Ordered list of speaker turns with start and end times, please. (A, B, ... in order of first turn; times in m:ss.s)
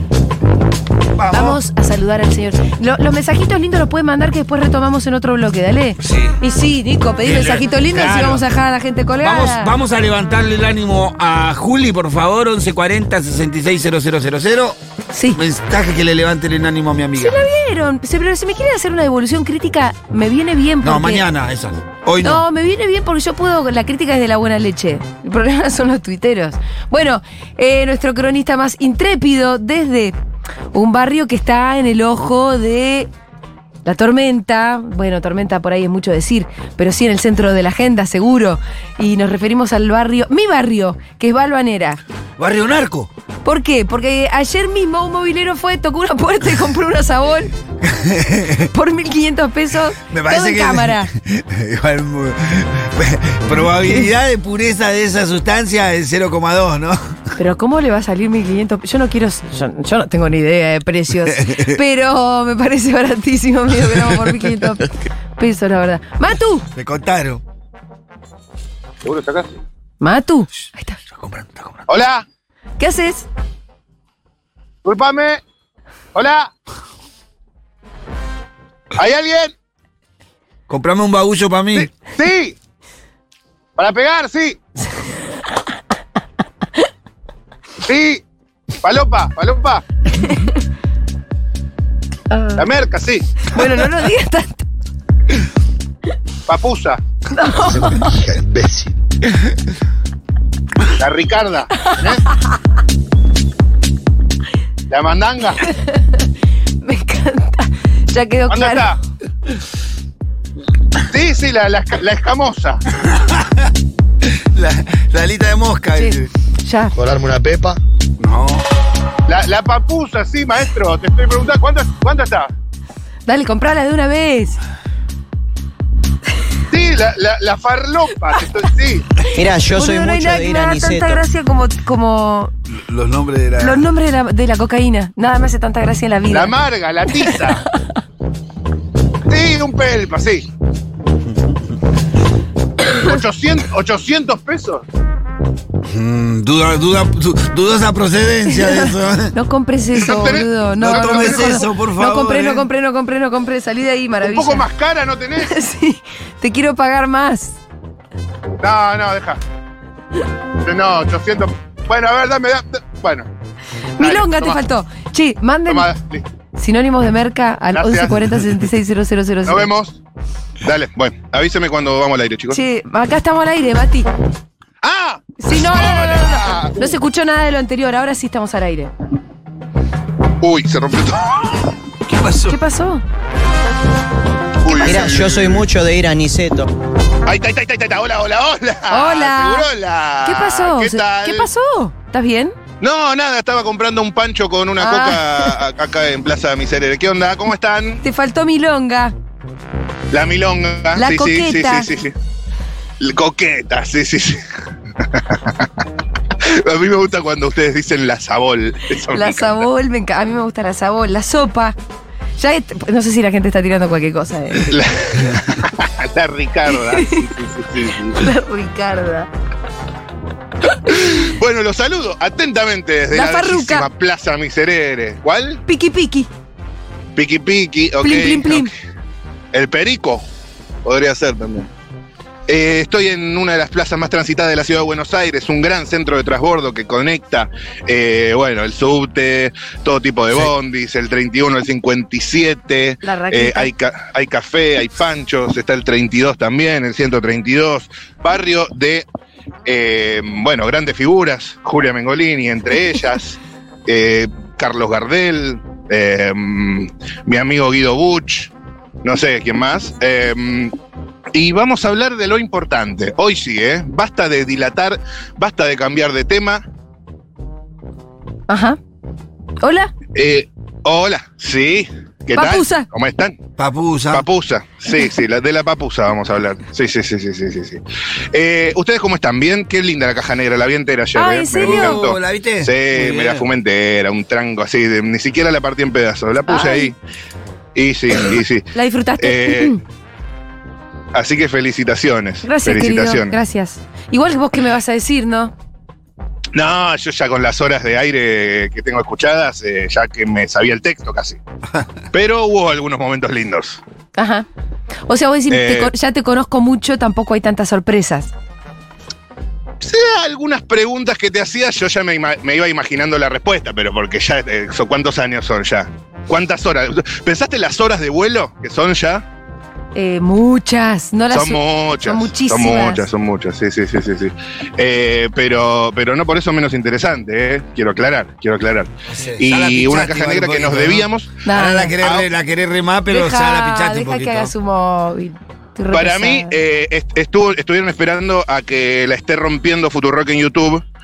0:01.1-0:01.6 A
0:01.3-0:09.7 B
0:06.0-0:06.4 A
0:07.2-0:08.4 A
0:09.2-0:14.8 A
0:15.1-0:15.4 B
0:15.3-0:17.4 A
0:17.2-0:21.2 B
0:20.8-0:22.4 A
0:22.2-0:30.2 B
0:30.7-0:33.1 B
0:33.8-0:42.0 B
0:42.4-0:43.1 A
0:43.4-0:47.5 B
0:47.8-0:48.7 A
0:48.7-0:51.1 B
0:50.0-0:57.0 A
0:53.6-0:54.1 B
0:57.4-1:06.6 B
1:01.2-1:01.8 A
1:03.9-1:04.5 A
1:06.7-1:07.4 A
1:09.0-1:09.5 C
1:10.0-1:11.0 B
1:11.1-1:11.9 A
1:11.9-1:12.2 C
1:12.8-1:13.3 B
1:14.8-1:15.4 C
1:16.1-1:16.5 C
1:19.0-1:19.5 C
1:20.7-1:21.9 A
1:21.8-1:22.6 C
1:23.8-1:24.6 C
1:27.8-1:28.2 C
1:28.8-1:29.8 C
1:32.3-1:32.6 B
1:32.6-1:33.3 C
1:33.4-1:34.6 B
1:36.5-1:37.0 C
1:37.3-1:38.1 B
1:37.6-1:39.0 D
1:41.0-1:42.2 C
1:44.9-1:45.6 C
1:45.6-1:46.2 B
1:46.8-1:48.9 B
1:48.5-1:49.0 C
1:51.1-1:52.8 C
1:53.0-1:53.7 A
1:54.2-1:56.3 A
1:56.0-1:56.9 B
1:56.9-1:57.8 D
1:58.2-1:58.6 A
1:59.3-2:02.5 C
2:03.2-2:04.6 B
2:06.7-2:09.0 C
2:09.3-2:11.2 E
2:09.6-2:12.5 B
2:12.7-2:13.9 A
2:13.6-2:16.5 B
2:16.3-2:17.6 C
2:19.3-2:20.5 C
2:22.9-2:24.8 C
2:25.8-2:29.3 A
2:28.5-2:34.6 B
2:30.0-2:31.6 C
2:30.8-2:32.7 A
2:34.2-2:35.6 C
2:35.4-2:37.6 B
2:38.6-2:39.4 C
2:40.6-2:43.3 C
2:44.0-2:45.9 B
2:44.0-2:44.6 C
2:45.7-2:46.2 C
2:46.6-2:49.7 B
2:47.7-2:48.3 C
2:49.4-2:50.0 C
2:50.6-2:52.6 C
2:52.5-2:54.1 B
2:54.8-2:56.8 C
2:55.4-2:58.9 B
3:00.4-3:01.6 C
3:02.1-3:02.6 A
3:02.5-3:03.0 B
3:04.6-3:05.6 C
3:04.8-3:06.7 E
3:07.2-3:11.5 C
3:08.9-3:09.7 B
3:10.2-3:12.6 B
3:12.8-3:18.0 C
3:14.8-3:15.6 B
3:18.0-3:19.1 B
3:20.1-3:22.1 C
3:20.9-3:21.9 B
3:23.0-3:24.4 C
3:25.0-3:25.7 C
3:26.4-3:29.7 C
3:29.1-3:31.8 B
3:32.4-3:34.7 B
3:34.6-3:38.3 C
3:36.8-3:37.2 B
3:38.1-3:39.3 B
3:40.8-3:45.6 C
3:43.1-3:43.9 B
3:45.6-3:46.3 B
3:47.2-3:48.7 C
3:48.0-3:48.7 B
3:49.5-3:50.2 C
3:50.8-3:51.7 C
3:52.5-4:09.0 C
4:03.0-4:03.7 B
4:09.6-4:18.5 C
4:19.0-4:20.7 C
4:21.3-4:26.6 C
4:28.5-4:28.8 B
4:29.6-4:29.9 B
4:30.1-4:33.4 C
4:32.3-4:32.9 B
4:33.6-4:34.2 A
4:34.1-4:37.8 C
4:38.3-4:46.9 C
4:41.1-4:42.0 B
4:41.6-4:43.5 A
4:46.5-4:46.9 B
4:47.7-4:48.6 C
4:48.7-4:49.8 B
4:49.2-4:49.7 C
4:51.1-4:53.4 C
4:52.4-4:55.5 B
4:56.5-5:01.4 C
5:02.1-5:03.8 C
5:04.2-5:04.4 B
5:05.1-5:08.3 B
5:05.5-5:05.9 C
5:09.8-5:19.2 C
5:19.9-5:23.0 B
5:21.3-5:31.3 C
5:29.1-5:34.5 A
5:31.4-5:32.0 B
5:32.0-5:32.3 C
5:33.1-5:36.5 B
5:35.9-5:40.8 C